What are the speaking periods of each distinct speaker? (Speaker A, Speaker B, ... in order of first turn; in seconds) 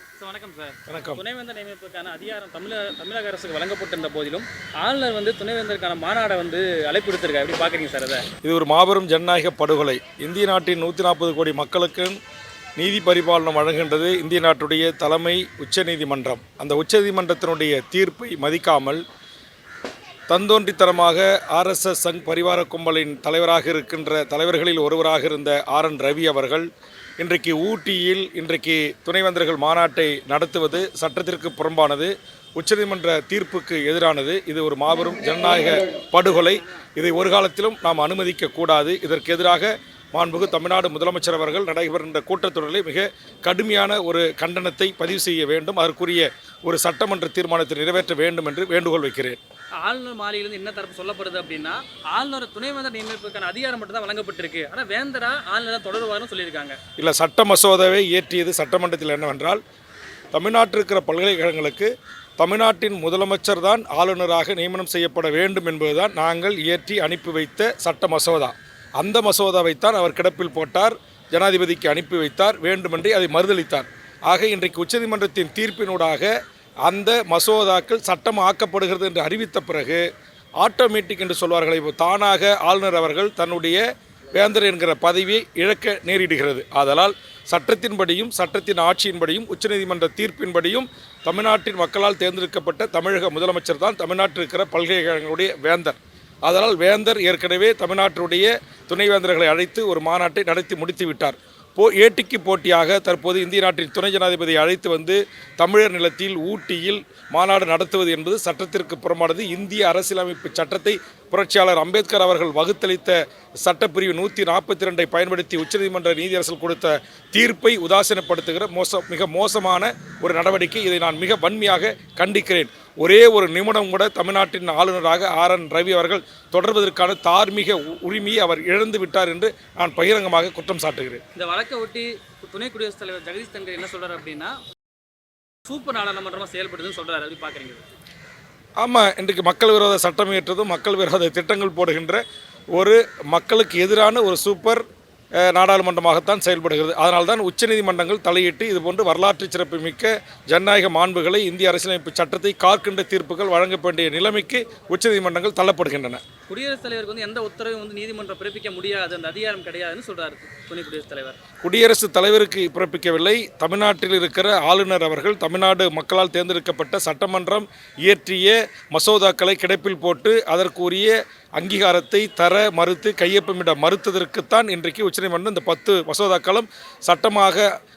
Speaker A: 0.2-8.3, 49.8-56.8, 131.3-134.6, 135.7-137.8, 156.5-161.4
Speaker B: 0.9-1.2, 8.4-12.2, 12.8-19.0, 20.3-26.7, 27.2-49.4, 57.0-59.6, 60.3-76.3, 76.8-80.0, 80.6-83.8, 84.3-131.2, 138.8-142.2, 142.7-144.8, 145.4-156.2, 161.6-177.7